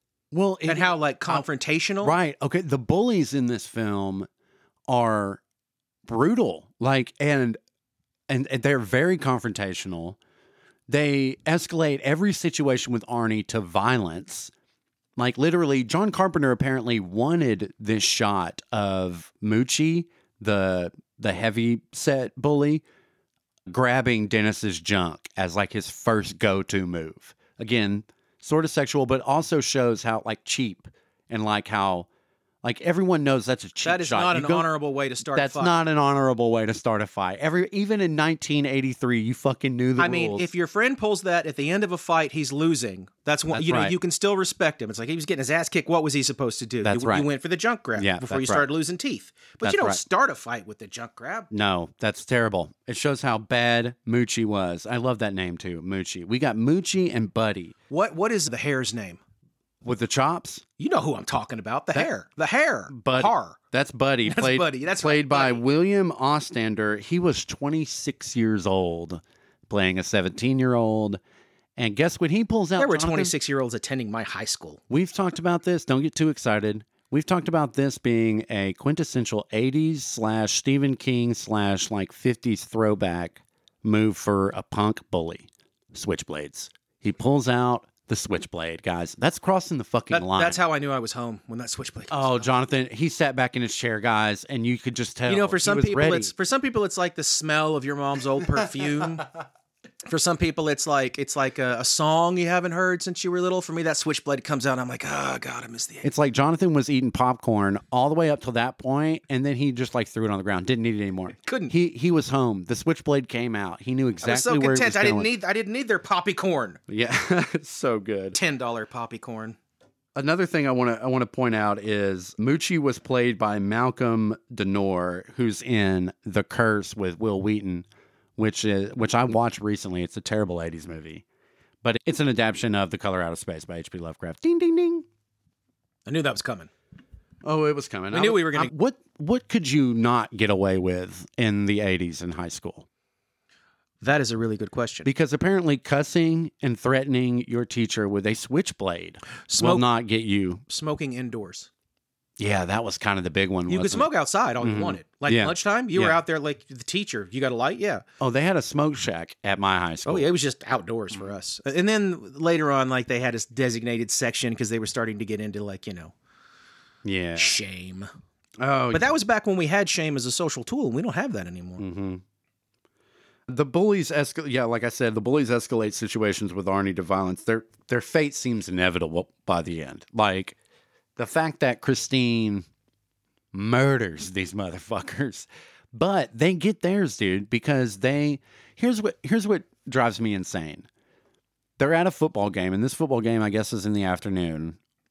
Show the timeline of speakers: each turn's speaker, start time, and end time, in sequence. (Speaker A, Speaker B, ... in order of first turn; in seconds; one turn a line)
Speaker A: 0.3-1.5
Speaker B: 0.7-2.2
Speaker A: 2.0-4.3
Speaker A: 4.9-5.4
Speaker A: 6.1-7.6
Speaker A: 8.3-10.2
Speaker A: 10.9-14.5
Speaker A: 15.2-22.8
Speaker A: 23.7-32.1
Speaker A: 32.6-34.7
Speaker B: 33.8-35.8
Speaker A: 35.3-40.5
Speaker B: 40.0-51.5
Speaker A: 43.5-44.0
Speaker A: 46.8-47.3
Speaker A: 48.0-48.7
Speaker A: 49.6-50.0
Speaker A: 51.5-57.8
Speaker B: 57.9-59.2
Speaker A: 59.8-60.6
Speaker B: 60.8-63.6
Speaker A: 62.9-71.2
Speaker B: 64.2-65.6
Speaker A: 71.8-73.3
Speaker B: 72.8-74.8
Speaker A: 74.9-90.6
Speaker B: 90.1-92.5
Speaker A: 92.1-96.3
Speaker B: 95.3-99.3
Speaker B: 100.1-106.1
Speaker A: 106.0-115.3
Speaker B: 111.4-111.7
Speaker B: 114.2-116.8
Speaker A: 116.9-118.4
Speaker B: 118.3-119.6
Speaker A: 120.2-131.2
Speaker A: 131.8-135.1
Speaker B: 136.1-136.7
Speaker A: 137.4-142.9
Speaker B: 138.1-138.7
Speaker B: 144.0-145.1
Speaker A: 145.1-150.6
Speaker B: 149.5-149.8
Speaker B: 150.7-151.7
Speaker A: 152.4-154.1
Speaker B: 153.7-158.0
Speaker A: 154.6-156.2
Speaker A: 158.2-160.3
Speaker B: 160.1-166.1
Speaker A: 167.0-167.6
Speaker B: 167.4-168.1
Speaker A: 168.6-169.1
Speaker B: 168.9-171.8
Speaker A: 171.8-172.2
Speaker A: 173.5-180.6
Speaker A: 181.2-182.7
Speaker A: 183.5-190.9
Speaker A: 191.8-194.8